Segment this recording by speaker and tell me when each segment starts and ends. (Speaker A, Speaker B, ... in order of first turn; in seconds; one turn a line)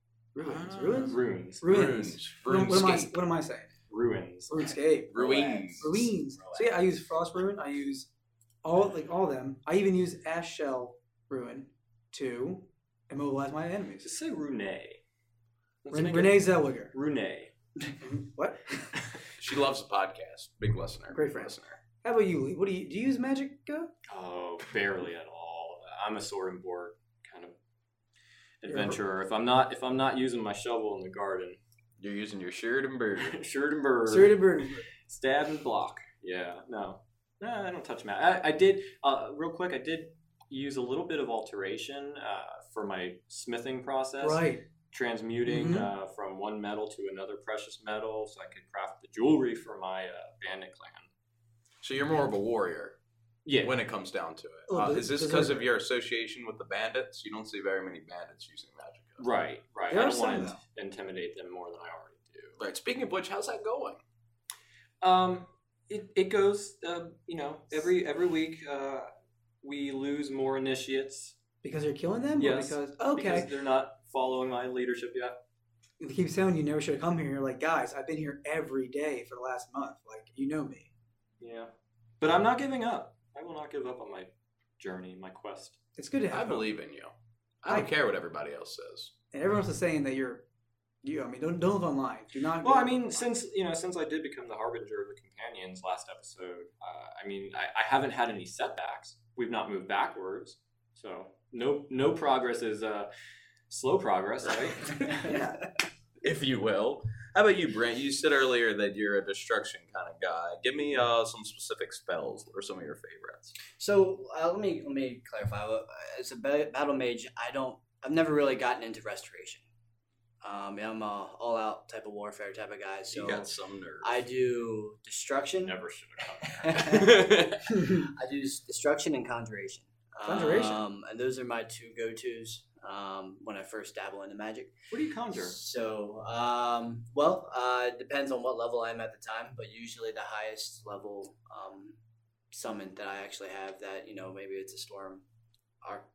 Speaker A: 0.3-3.7
Speaker B: 0.4-3.2
Speaker C: 1.0-1.8
Speaker C: 3.9-4.7
Speaker A: 4.5-5.1
Speaker B: 5.1-6.1
Speaker D: 5.1-6.8
Speaker A: 5.8-8.1
Speaker A: 8.6-14.0
Speaker C: 14.0-15.0
Speaker C: 15.8-17.5
Speaker A: 15.9-16.9
Speaker A: 18.0-18.9
Speaker B: 19.4-21.8
Speaker A: 21.1-23.9
Speaker C: 24.1-27.6
Speaker C: 28.6-31.6
Speaker A: 28.7-29.0
Speaker B: 32.0-33.4
Speaker C: 33.2-34.5
Speaker A: 34.1-34.9
Speaker C: 35.0-51.1
Speaker A: 44.2-44.6
Speaker A: 45.5-45.9
Speaker B: 51.8-53.0
Speaker C: 53.4-53.8
Speaker B: 53.6-59.2
Speaker A: 54.7-55.7
Speaker C: 59.2-62.6
Speaker A: 59.9-60.6
Speaker B: 62.6-64.0
Speaker C: 65.0-69.1
Speaker C: 69.6-71.3
Speaker A: 71.6-73.5
Speaker C: 72.4-75.4
Speaker A: 76.0-80.9
Speaker C: 81.4-85.8
Speaker A: 86.0-86.7
Speaker B: 86.3-89.1
Speaker A: 89.3-90.4
Speaker A: 91.0-93.3
Speaker C: 92.6-103.1
Speaker C: 103.7-105.2
Speaker D: 105.0-105.4
Speaker A: 105.2-105.6
Speaker B: 106.2-113.5
Speaker D: 113.8-119.7
Speaker D: 120.4-123.5
Speaker B: 123.1-124.2
Speaker D: 124.0-125.8
Speaker C: 125.6-126.9
Speaker D: 126.5-127.2
Speaker B: 126.8-127.6
Speaker A: 126.9-127.2
Speaker A: 127.7-128.1
Speaker D: 127.8-134.7
Speaker A: 130.2-130.8
Speaker C: 134.9-135.6
Speaker D: 135.3-141.9
Speaker D: 142.5-145.2